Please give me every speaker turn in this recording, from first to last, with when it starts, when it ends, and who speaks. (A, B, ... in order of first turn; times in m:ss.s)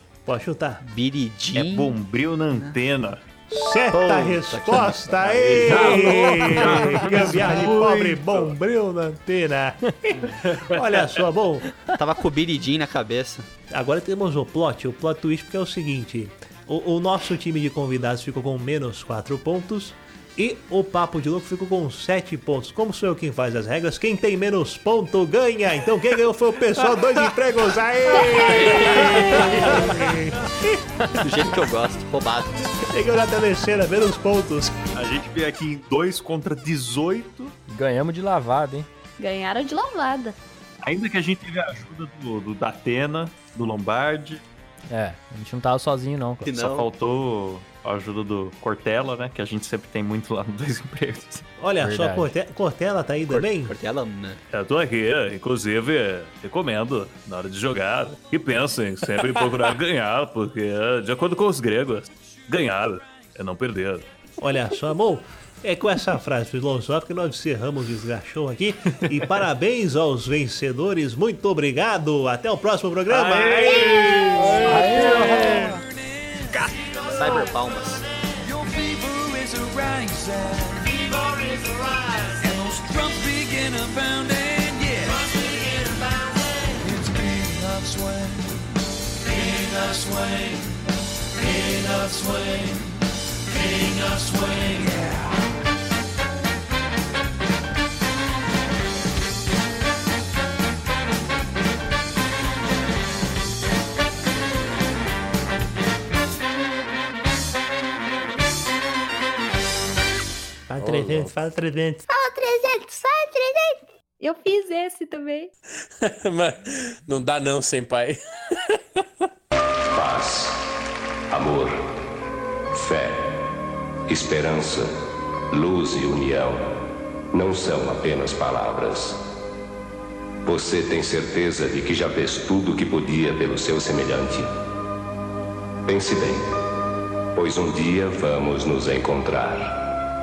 0:00.2-0:00.8 A
0:00.8-0:02.0 B
0:01.5-0:03.2 C
0:03.5-0:11.6 A
0:03.9-0:06.4 B
0:05.6-0:08.1 C
0:10.4-0:11.1 C
0:11.9-0:13.5 B
0:13.7-0:30.4 A
0:28.6-0:29.8 C
0:31.1-0:32.7 B
0:32.9-0:34.8 A
0:34.9-0:37.5 C
0:37.7-0:38.9 D
0:39.2-0:40.3 E
0:40.8-0:44.4 C
0:44.9-0:46.5 D
0:46.4-0:46.9 B
0:46.5-0:51.4 C
0:51.6-0:53.7 A
0:51.8-0:52.3 D
0:53.3-0:54.4 B
0:54.5-1:04.1 C
1:04.4-1:14.2 A
1:13.1-1:15.7 C
1:13.6-1:14.4 F
1:14.4-1:15.8 D
1:14.6-1:17.2 G
1:16.5-1:17.4 C
1:17.1-1:18.0 B
1:18.4-1:25.8 G
1:26.8-1:28.7 G
1:29.2-1:30.8 G
1:31.4-1:35.4 G
1:50.7-1:52.0 A
1:50.8-1:51.4 H
1:52.1-1:53.8 F
1:54.2-1:55.5 E
1:56.0-1:58.2 H
1:59.8-2:00.6 I
2:01.3-2:01.8 I
2:02.7-2:03.3 I
2:04.1-2:04.9 I
2:05.5-2:06.7 I
2:07.3-2:09.2 I
2:10.4-2:14.5 I
2:15.8-2:16.4 I
2:17.3-2:19.8 I